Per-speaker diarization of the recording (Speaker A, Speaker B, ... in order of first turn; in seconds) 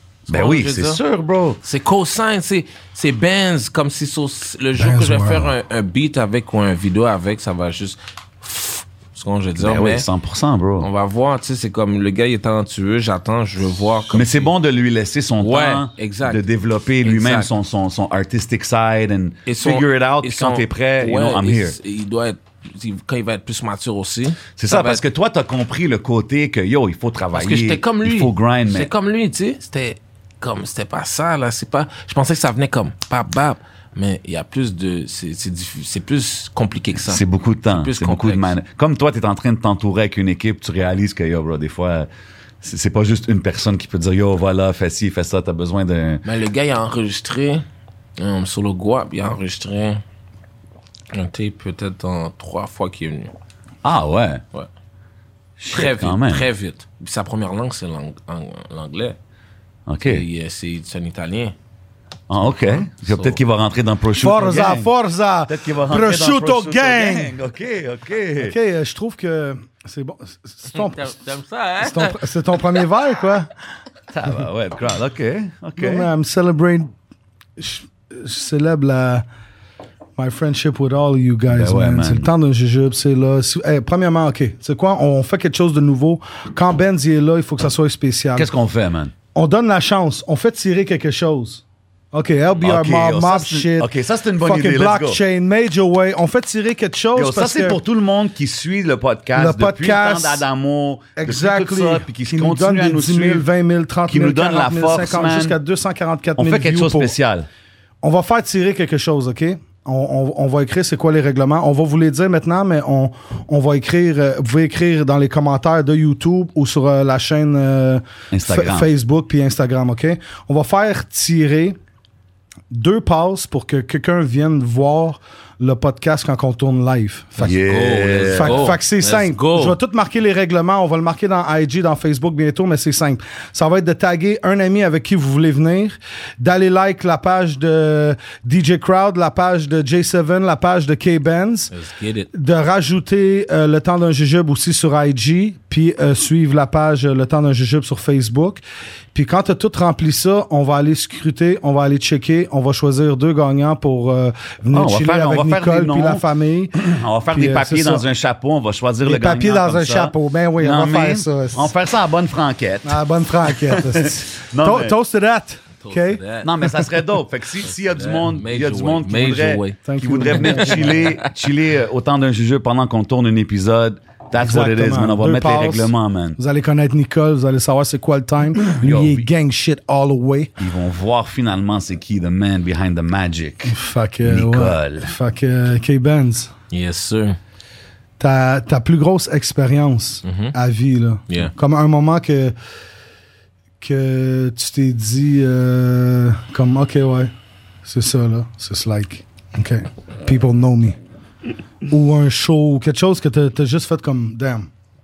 Speaker A: 0.3-1.0, 1.6-10.1, 10.8-14.5, 15.4-16.4, 17.0-17.5, 19.4-25.0, 27.3-38.5, 46.2-47.6, 48.2-50.0, 51.1-53.3, 55.7-59.2, 60.0-61.5, 62.6-63.4, 70.7-72.2, 127.4-129.8, 141.7-142.3, 165.8-166.6, 167.8-171.2, 186.7-187.4, 190.2-190.5
Speaker B: 0.3-1.6, 9.6-10.9, 14.1-21.8, 24.6-28.9, 37.0-42.1, 42.6-46.2, 53.8-54.4, 55.6-56.5, 59.9-60.2, 62.3-64.9, 65.5-68.5, 74.1-76.1, 81.5-82.3, 88.3-89.1, 92.5-95.2, 97.1-103.5, 104.1-105.6, 106.4-107.5, 118.3-118.9, 127.4-128.8, 154.7-164.9, 166.4-176.4, 178.7-179.3, 180.6-185.1
Speaker C: 4.8-5.5, 64.2-67.3, 68.4-71.2, 71.8-73.5, 75.8-76.9, 77.6-79.2, 80.2-88.5, 89.3-97.8, 99.3-100.4, 101.2-107.1, 108.0-121.8, 122.7-127.5, 128.3-141.7, 142.3-148.6, 149.1-158.1, 159.0-161.7, 162.8-166.2, 169.8-171.1, 174.4-180.6, 183.7-186.5, 188.2-192.5, 193.8-197.3, 197.8-201.0, 201.9-204.7